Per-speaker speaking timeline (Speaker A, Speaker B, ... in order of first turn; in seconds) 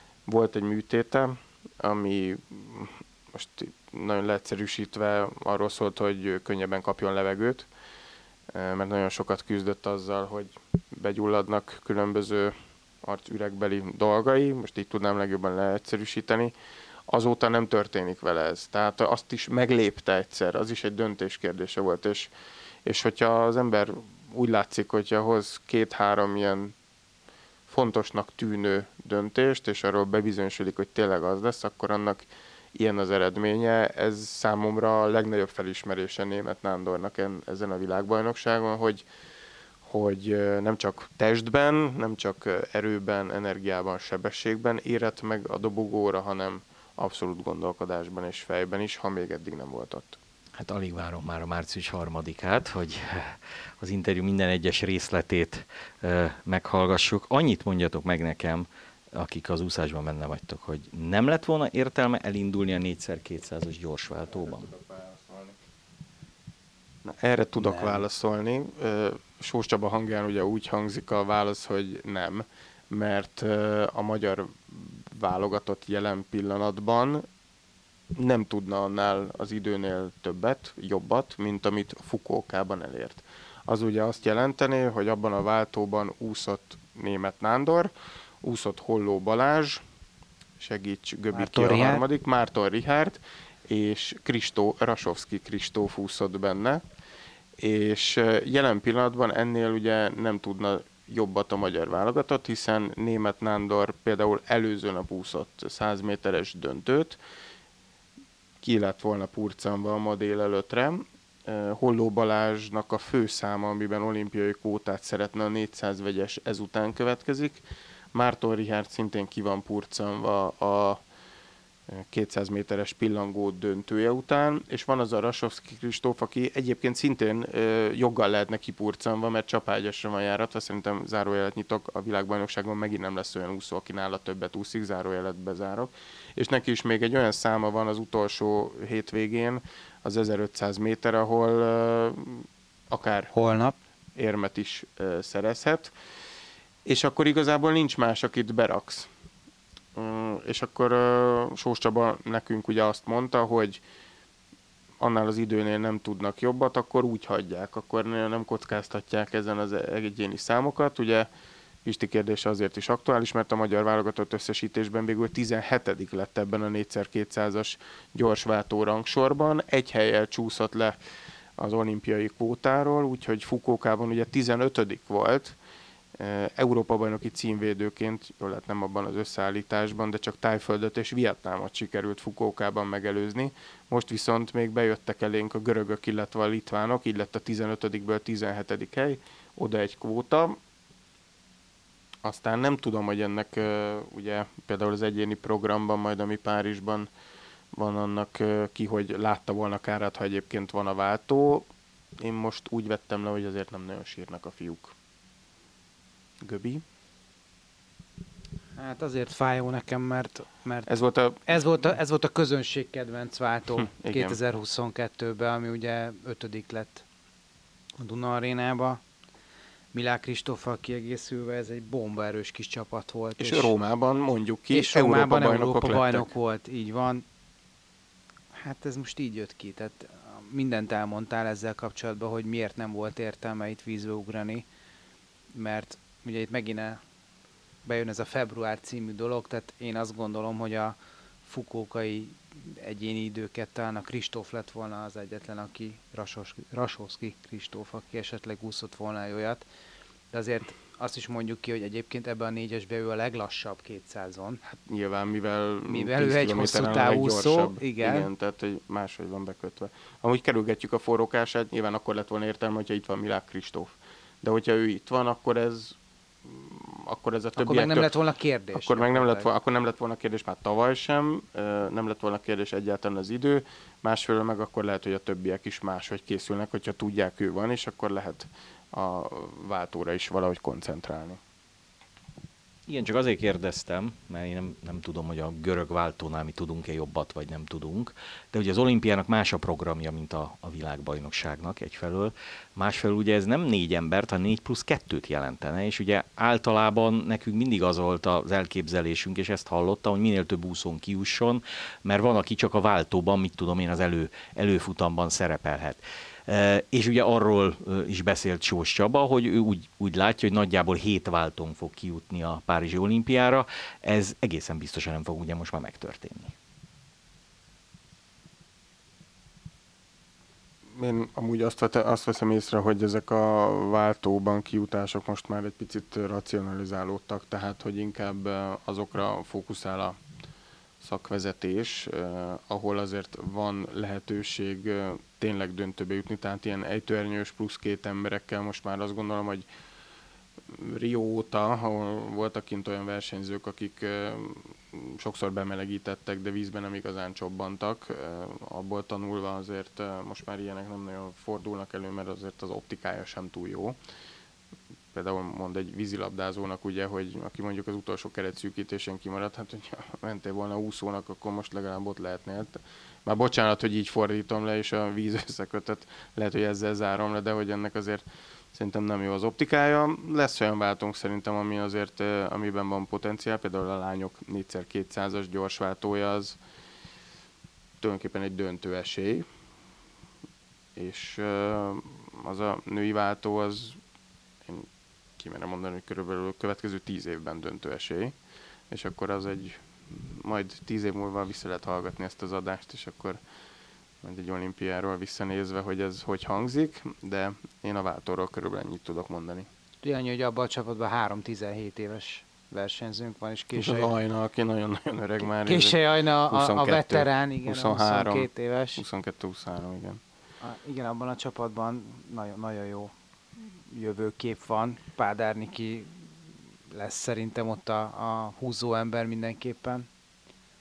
Speaker A: 0.3-7.7, 8.5-16.5, 17.1-22.3, 22.9-26.7, 27.7-39.0, 39.8-50.2, 64.5-65.5, 67.0-77.2, 78.2-87.9, 88.4-89.8, 90.6-96.8, 97.6-107.2, 108.6-117.6, 118.1-121.0, 121.9-143.3, 144.2-145.9, 146.8-149.1, 150.0-153.8, 155.0-161.3, 161.8-170.9, 171.6-175.6, 176.2-190.6, 192.2-197.1, 197.7-201.7, 202.2-204.9, 206.4-206.8, 210.9-211.6, 213.9-214.4, 223.4-226.3, 254.7-268.1, 268.7-281.4, 320.9-330.2, 331.0-339.7, 340.7-354.0, 355.1-376.6, 378.0-379.5, 381.0-384.0, 385.4-388.3, 388.9-393.4, 394.2-399.7, 403.8-410.2
Speaker B: 50.6-64.7, 282.9-316.6
Speaker C: 67.6-68.1, 91.3-92.0, 143.3-143.8, 208.8-210.9, 211.5-217.1, 218.0-219.0, 219.9-223.7, 224.7-227.2, 228.5-234.7, 235.5-237.0, 237.8-249.6, 250.3-254.6, 255.9-258.3, 267.6-269.5, 400.0-404.1, 405.6-409.0, 410.6-416.3, 416.9-420.1